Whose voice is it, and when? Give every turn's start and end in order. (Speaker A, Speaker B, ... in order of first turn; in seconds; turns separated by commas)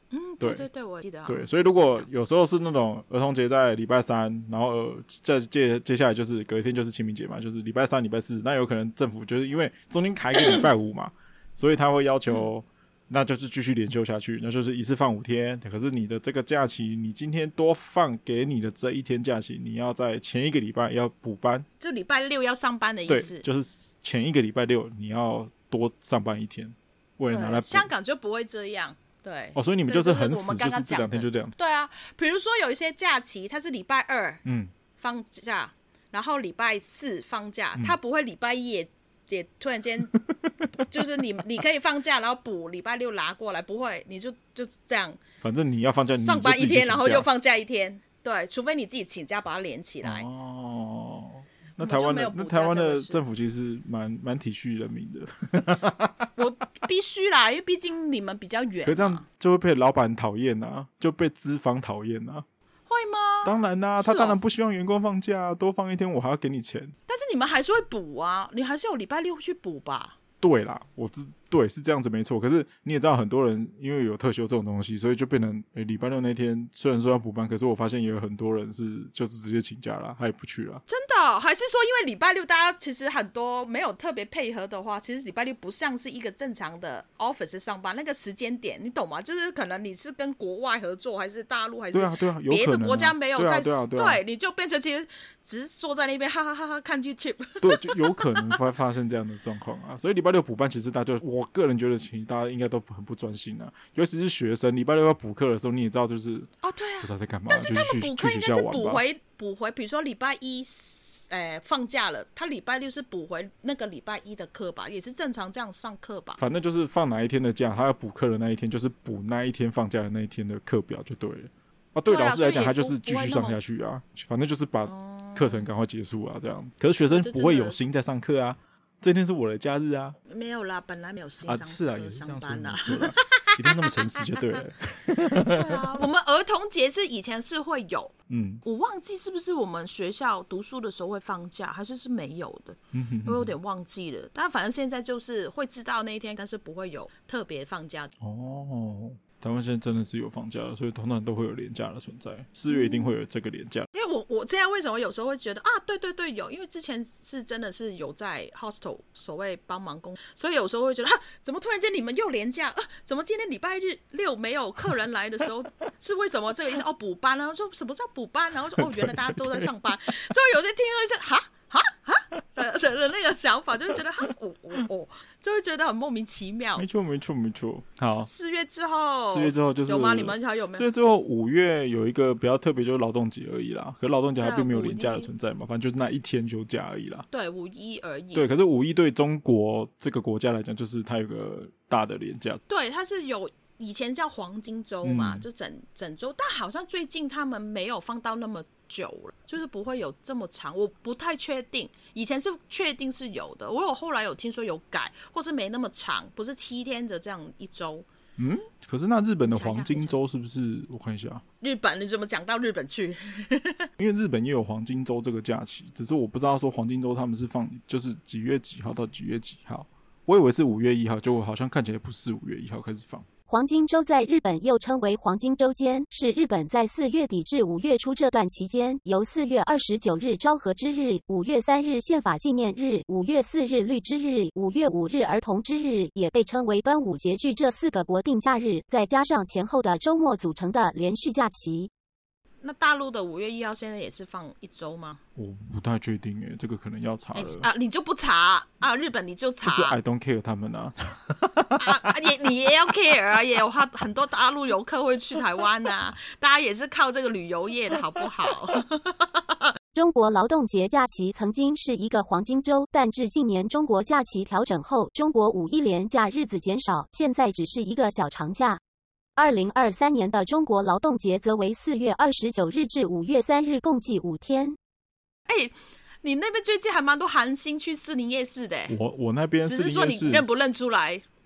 Speaker A: 0.1-2.1, Speaker B: 0.4-0.7, Speaker B: 1.3-21.7, Speaker A: 21.8-23.4, Speaker B: 23.1-27.9, Speaker A: 27.3-34.4, Speaker B: 29.6-31.6, Speaker B: 34.5-34.7, Speaker A: 35.0-40.1, Speaker B: 40.3-40.6, Speaker A: 40.8-45.2, Speaker B: 45.4-47.3, Speaker A: 46.0-50.3, Speaker B: 50.0-56.3, Speaker A: 51.8-53.2, Speaker A: 56.4-59.2, Speaker B: 58.9-62.5, Speaker A: 62.9-64.4, Speaker B: 63.4-66.9, Speaker A: 67.1-70.2, Speaker B: 70.4-80.8, Speaker A: 80.9-98.6, Speaker B: 91.9-94.2, Speaker B: 97.6-106.5, Speaker A: 106.6-116.4, Speaker B: 107.0-109.0, Speaker B: 116.4-130.2, Speaker A: 122.1-123.6, Speaker A: 124.9-125.7, Speaker A: 127.1-127.8, Speaker A: 130.3-134.6, Speaker B: 131.4-135.8, Speaker A: 135.4-138.1, Speaker B: 138.3-138.6, Speaker A: 138.6-148.1, Speaker B: 142.9-143.5, Speaker B: 148.2-153.9, Speaker A: 152.7-153.2, Speaker A: 153.9-176.8, Speaker B: 168.8-169.7, Speaker B: 176.8-178.3, Speaker A: 178.2-180.9, Speaker B: 179.3-187.3, Speaker A: 184.4-185.3, Speaker A: 187.3-188.5, Speaker B: 188.3-192.6, Speaker A: 192.7-208.1, Speaker B: 195.0-195.4, Speaker B: 208.4-211.4, Speaker A: 209.5-210.2, Speaker A: 211.6-213.9, Speaker B: 214.0-223.2, Speaker C: 223.5-241.9, Speaker A: 242.6-245.2, Speaker B: 245.4-247.7, Speaker A: 247.3-250.0, Speaker B: 249.6-252.2, Speaker A: 251.8-259.7, Speaker C: 259.9-268.8, Speaker C: 269.4-274.8, Speaker A: 275.5-279.0, Speaker B: 278.9-280.4, Speaker A: 279.6-281.2